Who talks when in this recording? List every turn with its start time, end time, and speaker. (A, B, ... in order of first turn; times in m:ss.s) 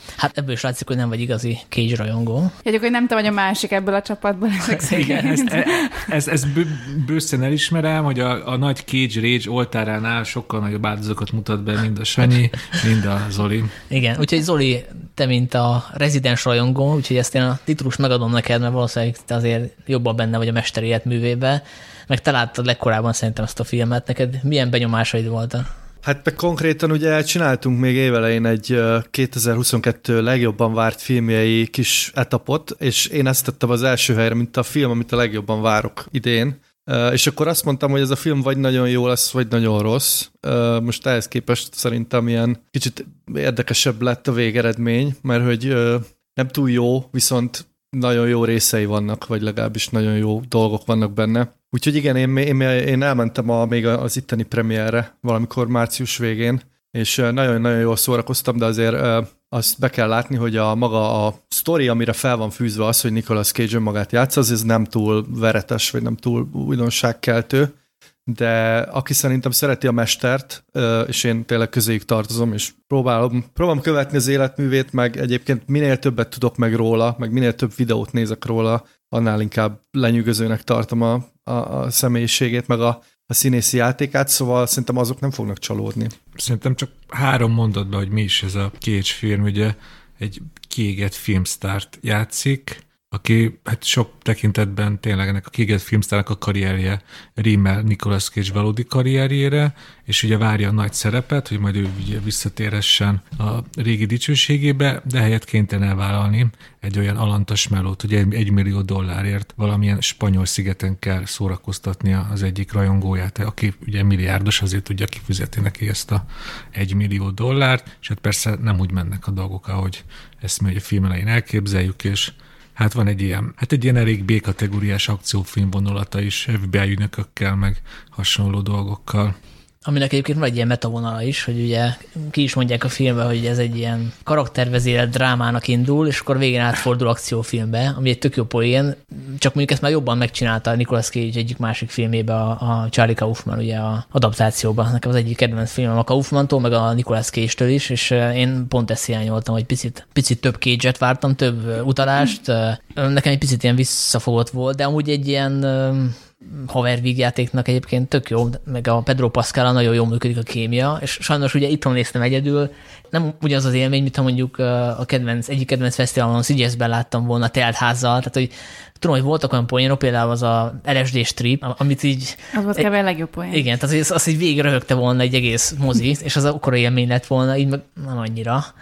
0:00.2-0:02.5 A
0:02.6-0:06.0 B
0:04.8-0:13.7 C
0:13.9-0:25.7 A
0:26.0-1:07.7 D
1:08.3-1:26.1 D
1:26.4-1:56.2 C
1:56.8-2:09.4 C
2:09.8-2:52.9 A
2:52.5-2:53.6 B
2:53.5-2:58.7 A